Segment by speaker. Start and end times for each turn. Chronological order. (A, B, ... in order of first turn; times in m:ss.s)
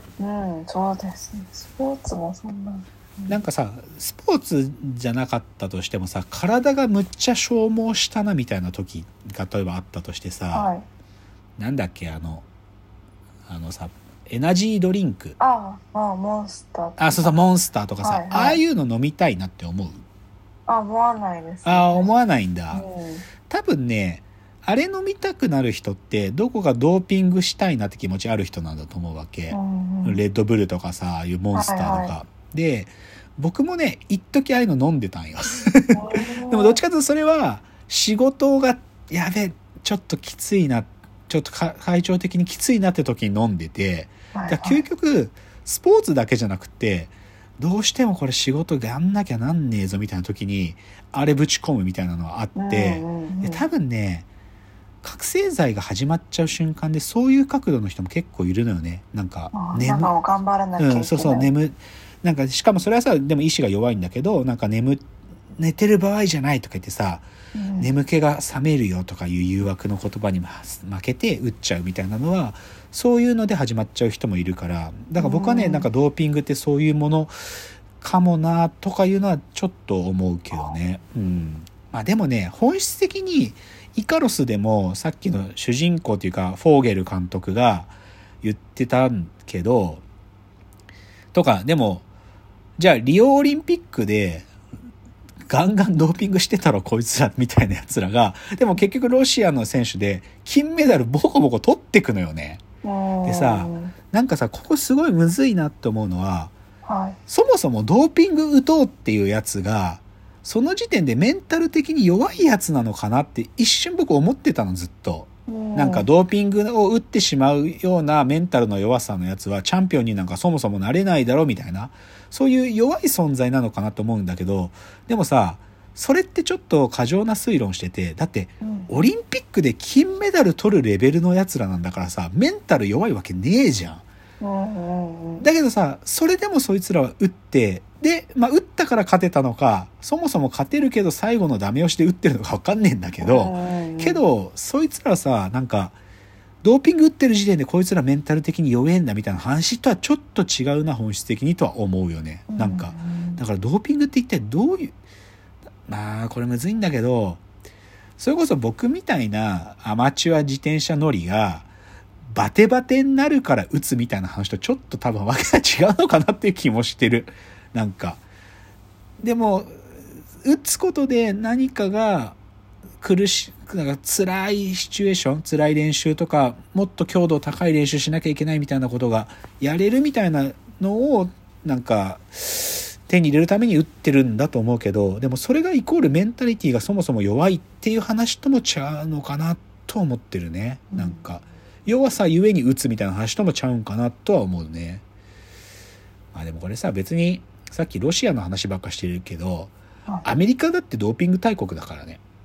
0:00.2-0:03.4 A
0:03.3-0:10.7 B
0:10.5-0:10.8 A
0:11.6-0:12.5 B
0:13.5-0:15.4 B
0:15.4-0:17.4 A
0:17.0-0:20.0 B
0:18.0-0:18.6 A
0:20.7-0:22.1 A
0:21.6-0:22.8 B
0:22.7-0:23.2 A
0:23.5-0:54.3 B
0:29.5-0:30.2 A
0:31.5-0:32.1 A
0:35.9-0:36.8 A
0:44.3-0:44.8 A
0:52.6-0:53.6 A
0:55.0-1:00.1 B
0:59.5-1:01.5 A
1:00.8-1:05.1 B
1:05.6-1:17.4 B
1:07.5-1:07.9 A
1:15.2-1:15.9 A
1:18.0-1:30.0 B
1:31.3-1:32.0 B
1:32.8-1:34.5 B
1:35.5-1:42.6 B
1:42.8-1:43.9 A
1:43.2-1:46.5 B
1:46.8-1:47.2 A
1:47.3-2:14.0 B
1:55.5-1:56.1 A
2:08.6-2:09.0 A
2:14.4-2:15.5 A
2:15.4-2:26.0 B
2:23.2-2:24.2 A
2:26.6-2:34.9 B
2:32.5-2:33.4 A
2:35.9-2:37.4 B
2:38.2-2:41.7 B
2:42.3-2:48.2 B
2:49.2-2:52.4 B
2:53.0-3:15.0 B
3:10.9-3:11.2 A
3:16.3-3:19.7 B
3:20.2-3:22.2 B